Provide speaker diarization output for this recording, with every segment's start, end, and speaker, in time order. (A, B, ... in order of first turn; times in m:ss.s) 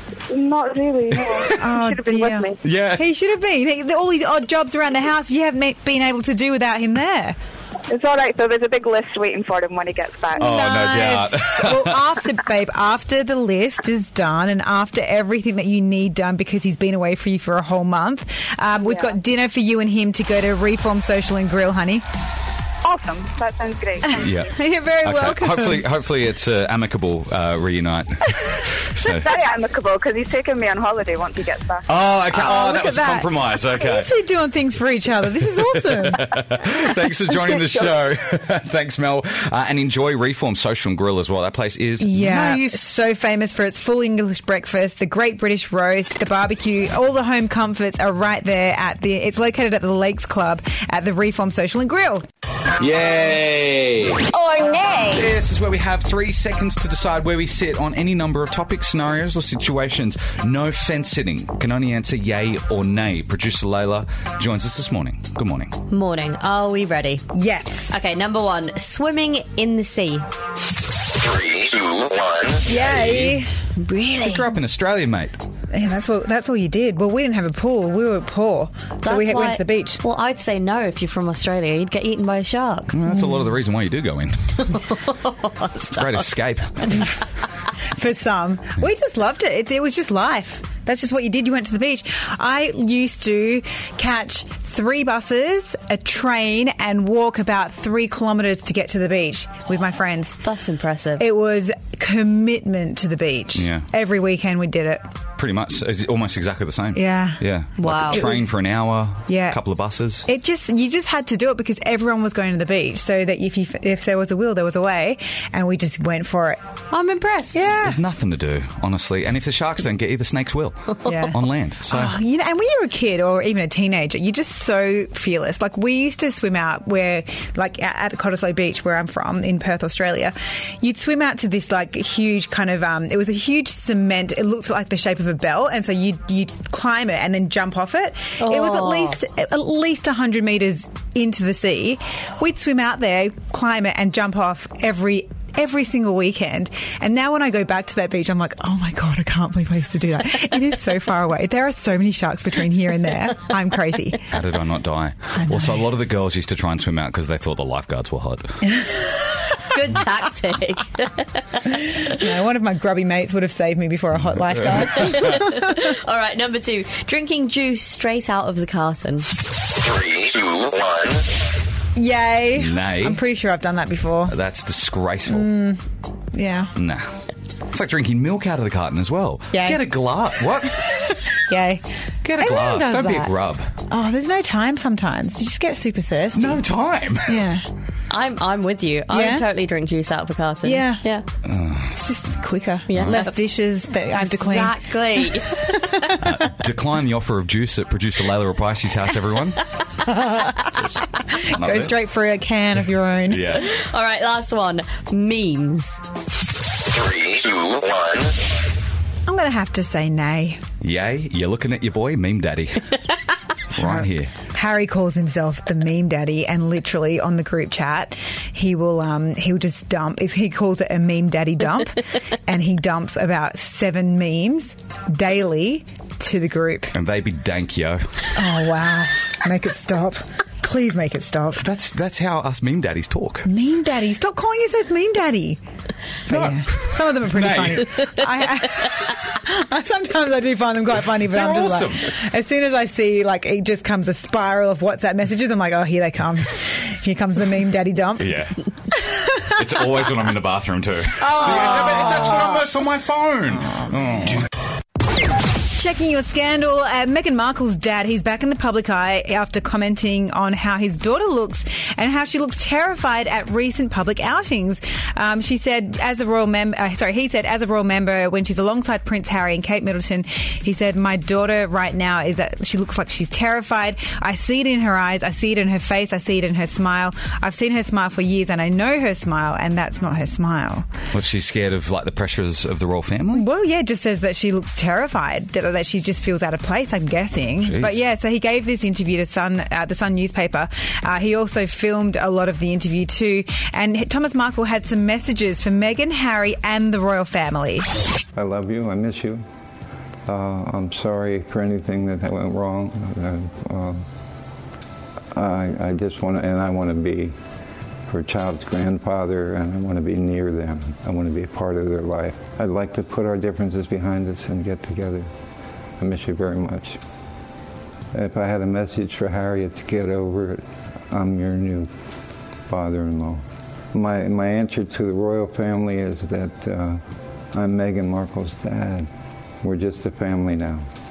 0:00.3-0:02.6 A
0:01.5-0:07.4 B
0:02.6-0:03.0 C
0:07.9-0:10.5 A
0:10.4-0:22.0 B
0:10.4-0:12.1 C
0:18.8-0:19.1 A
0:22.8-0:24.5 A
0:24.0-0:25.8 B
0:24.2-0:29.3 C
0:29.0-0:31.8 A
0:31.9-0:34.1 C
0:32.3-0:36.6 B
0:35.4-0:43.0 C
0:42.0-0:52.2 B
0:52.8-0:54.3 C
0:54.4-0:55.0 D
0:55.0-1:05.8 C
1:05.9-1:07.3 D
1:07.3-1:07.9 B
1:07.9-1:10.2 D
1:12.6-1:13.5 B
1:12.7-1:13.4 C
1:13.8-1:14.6 D
1:14.2-1:15.4 C
1:15.7-1:20.0 B
1:19.0-1:23.0 D
1:22.9-1:24.8 C
1:24.6-1:26.3 D
1:25.9-1:27.1 C
1:26.8-1:27.1 D
1:27.9-1:40.4 B
1:40.4-1:41.2 D
1:41.2-1:45.0 B
1:43.5-1:43.9 C
1:45.4-1:50.2 C
1:46.9-1:47.4 B
1:47.8-1:48.2 D
1:48.1-1:48.4 B
1:49.3-1:49.6 B
1:50.2-1:56.6 B
1:56.9-1:57.6 D
1:57.5-1:58.0 B
1:57.7-2:02.2 C
2:01.0-2:01.4 B
2:01.9-2:34.3 B
2:18.4-2:19.2 D
2:34.2-2:38.7 C
2:35.3-2:35.8 B
2:38.6-2:39.1 B
2:39.6-2:41.8 D
2:41.7-2:45.9 B
2:44.2-2:45.3 C
2:45.0-2:49.3 D
2:52.0-2:54.3 B
2:52.6-2:53.2 C
2:54.3-2:55.5 C
2:55.3-2:56.7 B
2:56.7-2:57.2 C
2:57.7-3:01.0 C
2:59.5-2:59.8 B
3:01.0-3:01.8 B
3:02.2-3:03.7 C
3:02.4-3:03.3 B
3:03.9-3:06.6 B
3:06.3-3:07.5 C
3:07.2-3:07.6 B
3:08.1-3:11.2 D
3:09.1-3:09.4 B
3:10.6-3:11.0 B
3:11.4-3:12.0 C
3:12.0-3:14.9 B
3:12.9-3:13.4 D
3:14.1-3:16.2 D
3:15.4-3:16.2 B
3:16.2-3:19.6 C
3:20.1-3:20.7 B
3:20.8-3:21.9 C
3:21.3-3:23.6 B
3:23.3-3:23.7 C
3:23.6-3:26.0 D
3:29.3-3:30.6 B
3:30.8-3:33.0 C
3:33.7-3:34.3 C
3:33.8-3:47.0 B
3:46.9-3:48.3 C
3:48.3-3:51.6 B
3:51.6-3:53.5 C
3:53.4-3:55.6 B
3:56.2-4:08.3 B
3:56.3-3:58.2 C
4:01.1-4:02.1 C
4:08.2-4:08.6 C
4:08.9-4:09.6 B
4:09.4-4:14.5 C
4:11.2-4:12.1 B
4:15.7-4:40.9 B
4:41.1-4:43.4 C
4:43.3-4:57.9 B
4:47.6-4:48.0 C
4:58.4-4:59.4 E
5:00.3-5:04.0 E
5:05.3-5:07.4 E
5:08.1-5:15.3 E
5:16.0-5:17.0 E
5:18.1-5:21.9 E
5:22.7-5:29.1 E
5:29.6-5:30.9 E